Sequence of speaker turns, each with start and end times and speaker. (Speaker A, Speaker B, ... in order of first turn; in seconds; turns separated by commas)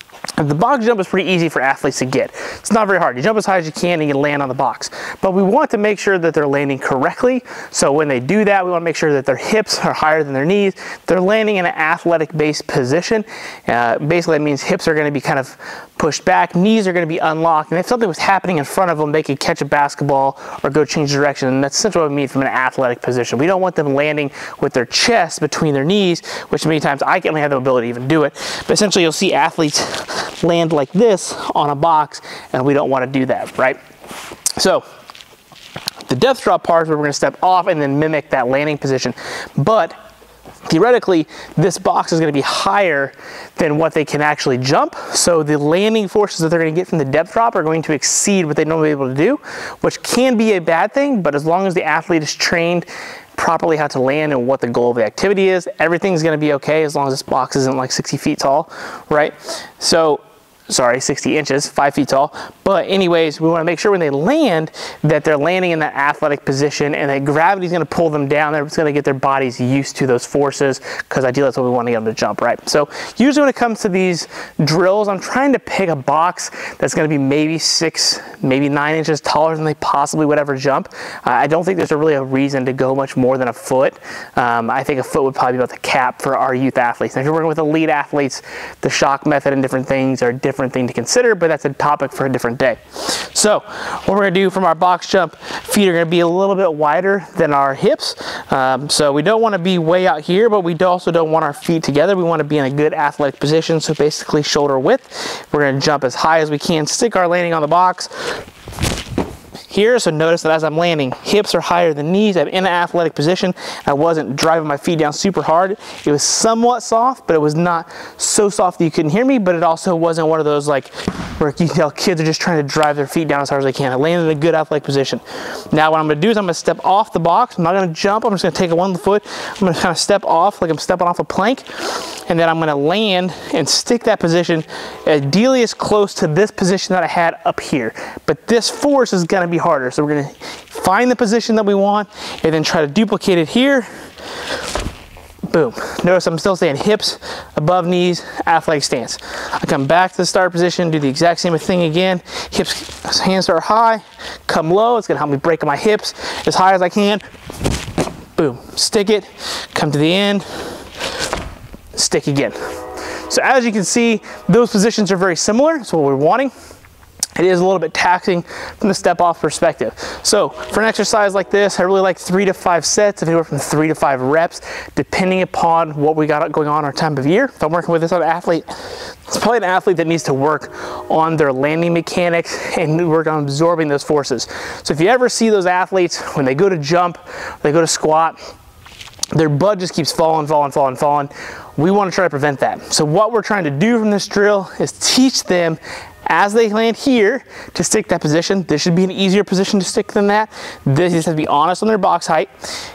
Speaker A: 0.4-33.8, Speaker A: 34.6-34.8, Speaker A: 36.0-40.0, Speaker A: 40.7-108.3, Speaker A: 109.7-143.9, Speaker A: 145.5-157.2, Speaker A: 158.4-160.7, Speaker A: 161.9-162.6, Speaker A: 163.2-166.5, Speaker A: 167.4-188.4, Speaker A: 189.3-202.5